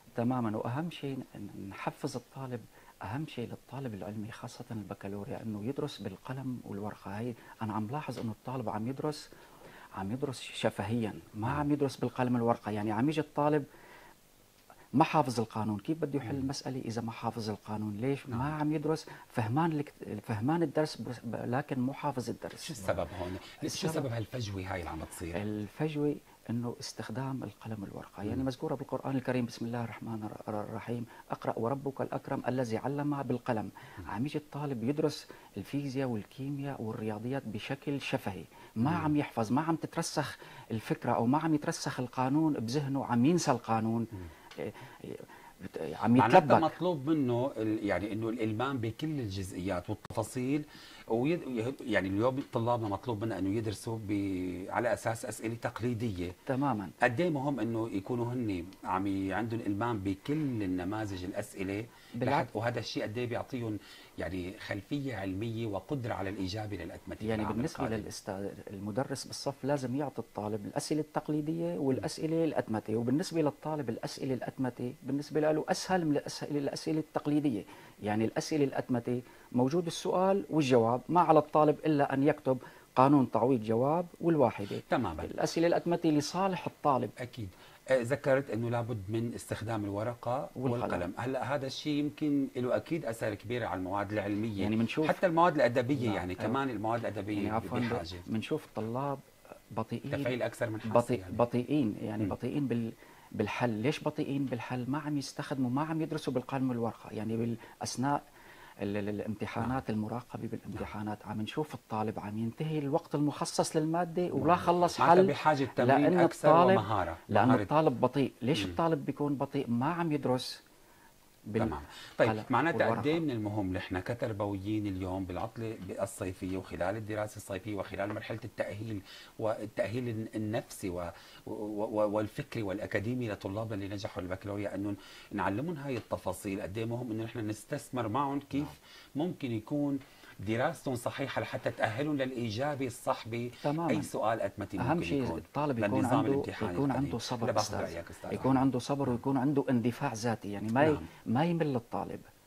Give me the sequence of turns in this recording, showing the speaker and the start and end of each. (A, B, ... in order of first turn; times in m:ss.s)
0:00.2-0:09.2 A
0:10.0-0:13.6 A
0:15.0-0:22.9 A
0:18.3-0:18.6 B
0:22.6-0:25.4 B
0:23.6-0:24.0 A
0:25.3-0:46.7 A
0:38.8-0:39.1 B
0:46.2-0:56.3 B
0:56.5-0:56.9 A
0:57.0-1:08.1 B
1:02.2-1:02.5 A
1:07.2-1:27.1 A
1:24.9-1:25.3 B
1:27.2-1:38.2 B
1:30.6-1:31.0 A
1:34.6-1:35.2 A
1:35.9-1:36.6 A
1:37.3-1:39.2 A
1:39.7-1:40.3 A
1:40.1-1:41.4 B
1:40.9-1:48.2 A
1:48.8-2:00.6 A
1:54.4-1:57.7 B
2:01.5-2:03.2 A
2:01.6-2:28.6 B
2:23.6-2:24.1 A
2:24.8-2:32.3 A
2:30.8-2:31.0 B